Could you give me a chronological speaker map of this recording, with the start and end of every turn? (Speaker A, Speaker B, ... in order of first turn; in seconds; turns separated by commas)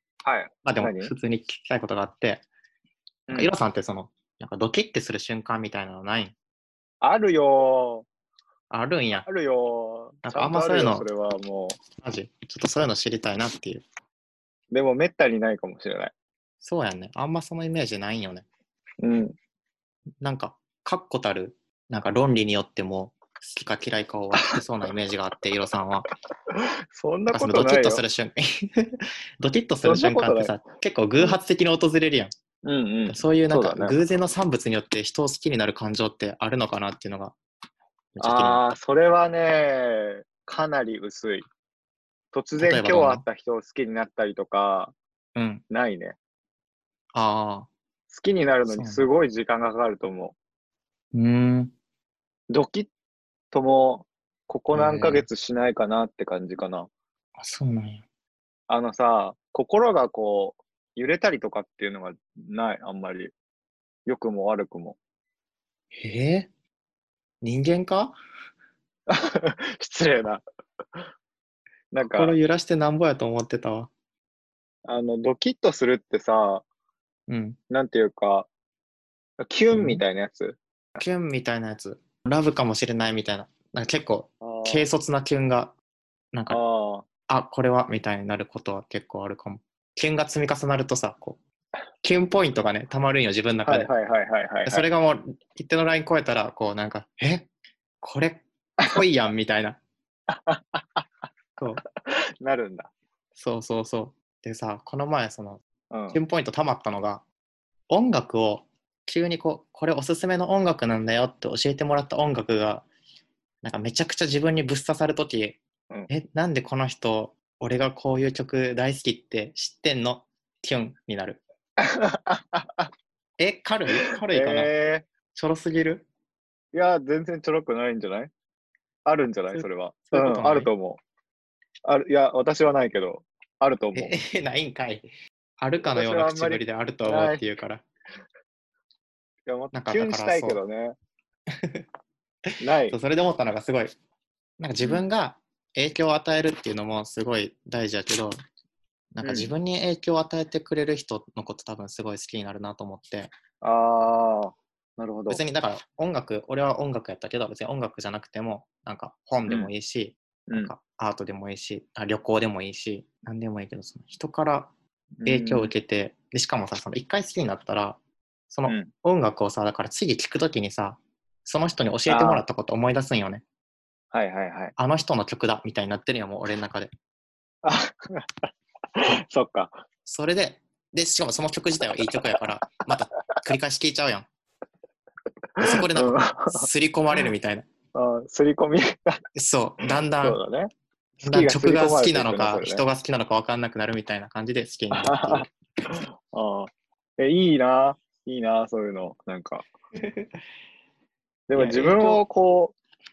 Speaker A: 0.2-1.1, Speaker B: 0.6-2.5, Speaker A: 3.3-3.5, Speaker B: 3.3-6.3, Speaker A: 7.0-8.1, Speaker B: 8.7-9.2, Speaker A: 9.2-11.8, Speaker B: 10.2-11.1, Speaker B: 12.0-13.8, Speaker A: 14.7-16.1, Speaker B: 16.6-18.4, Speaker A: 19.0-19.3, Speaker B: 20.2-26.1, Speaker A: 26.5-28.0, Speaker B: 27.3-32.3, Speaker A: 29.8-30.6, Speaker A: 32.6-34.0, Speaker B: 33.1-37.4, Speaker B: 38.1-38.7, Speaker A: 38.2-41.5, Speaker A: 42.3-45.0, Speaker B: 42.6-43.2, Speaker B: 45.4-45.6, Speaker A: 45.7-46.2, Speaker B: 47.1-47.7, Speaker A: 48.1-50.4, Speaker B: 48.7-49.1, Speaker B: 51.1-51.7, Speaker A: 52.5-52.9, Speaker A: 53.5-56.9, Speaker B: 54.7-55.3, Speaker B: 57.4-58.0, Speaker A: 58.7-63.3, Speaker A: 64.0-65.0, Speaker B: 65.9-66.5, Speaker B: 67.4-68.2, Speaker A: 69.1-70.4, Speaker A: 71.9-72.3, Speaker B: 72.0-73.9, Speaker A: 74.8-76.6, Speaker B: 77.3-77.6, Speaker A: 77.7-78.5, Speaker A: 79.4-80.6, Speaker B: 79.7-80.0, Speaker B: 81.0-85.7, Speaker A: 84.4-84.9, Speaker B: 86.3-86.6, Speaker A: 86.5-87.1, Speaker B: 87.3-91.4, Speaker B: 92.0-93.9, Speaker A: 93.7-94.8, Speaker B: 94.7-97.5, Speaker B: 98.0-99.8, Speaker A: 100.3-101.0, Speaker B: 101.6-101.8, Speaker A: 102.0-102.9, Speaker B: 103.3-107.2, Speaker A: 105.9-106.2, Speaker B: 107.9-112.8, Speaker B: 113.6-121.4, Speaker A: 121.8-122.9, Speaker B: 123.4-124.7, Speaker A: 124.3-125.1, Speaker B: 125.3-126.1, Speaker A: 126.7-128.3, Speaker A: 129.0-131.0, Speaker B: 129.5-130.7, Speaker A: 131.8-134.2, Speaker B: 133.9-135.1, Speaker B: 135.6-137.8, Speaker A: 135.8-137.4, Speaker A: 139.4-140.9, Speaker B: 139.7-140.6, Speaker B: 141.6-141.8, Speaker A: 142.6-143.0, Speaker B: 142.9-143.9, Speaker B: 144.6-148.3, Speaker A: 144.8-145.1, Speaker B: 149.1-153.3, Speaker A: 149.2-149.5, Speaker A: 153.6-155.4, Speaker B: 155.3-164.7, Speaker A: 159.4-159.7, Speaker A: 160.5-160.7, Speaker A: 165.2-165.7, Speaker B: 165.2-168.0, Speaker B: 168.5-173.4, Speaker A: 172.1-172.4, Speaker A: 174.1-174.8, Speaker B: 174.8-176.9, Speaker A: 177.6-179.8, Speaker B: 180.0-184.3, Speaker B: 185.6-187.7, Speaker A: 185.7-186.7, Speaker A: 187.9-189.2, Speaker B: 189.3-190.4, Speaker A: 190.2-190.7, Speaker B: 191.2-195.5, Speaker A: 191.3-192.8, Speaker A: 194.9-199.7, Speaker B: 200.0-200.4, Speaker A: 201.5-202.8, Speaker B: 201.5-202.2